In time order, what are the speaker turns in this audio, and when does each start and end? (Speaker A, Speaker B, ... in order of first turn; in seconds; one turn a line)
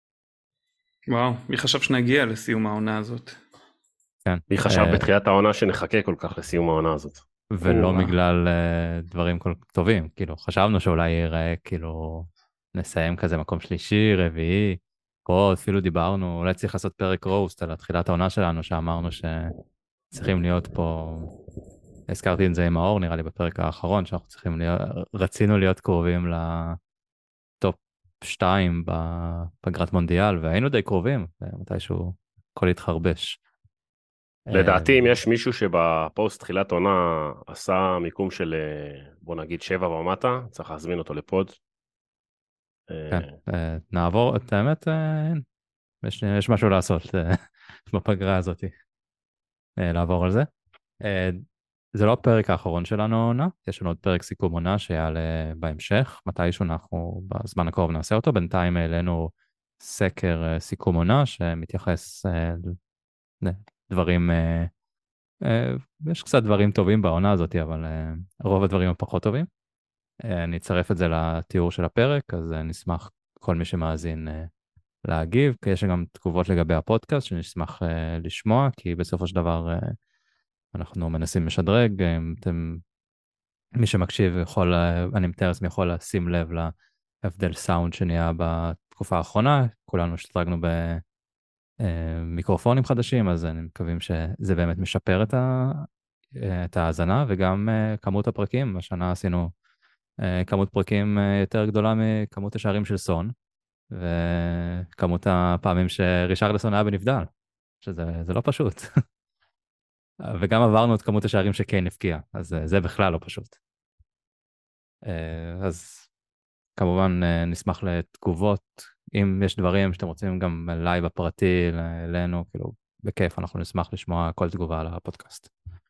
Speaker A: 1.1-3.4
Speaker B: 4.2-5.0
Speaker C: 4.5-8.1
Speaker B: 7.5-19.5
Speaker B: 20.1-21.3
Speaker B: 22.1-26.8
Speaker B: 27.6-33.4
Speaker B: 34.5-35.0
Speaker C: 34.5-41.6
Speaker C: 42.9-43.4
Speaker B: 43.1-45.4
Speaker B: 46.0-48.7
Speaker B: 49.8-50.5
Speaker B: 51.0-62.8
Speaker B: 63.4-64.7
Speaker B: 65.4-69.5
Speaker B: 70.2-74.5
Speaker B: 75.0-80.0
Speaker B: 80.7-82.8
Speaker B: 83.8-91.0
Speaker B: 91.8-99.5
Speaker B: 100.2-103.3
Speaker B: 103.9-107.3
Speaker B: 107.8-108.9
Speaker B: 110.2-113.6
Speaker B: 115.0-116.1
Speaker B: 116.8-125.5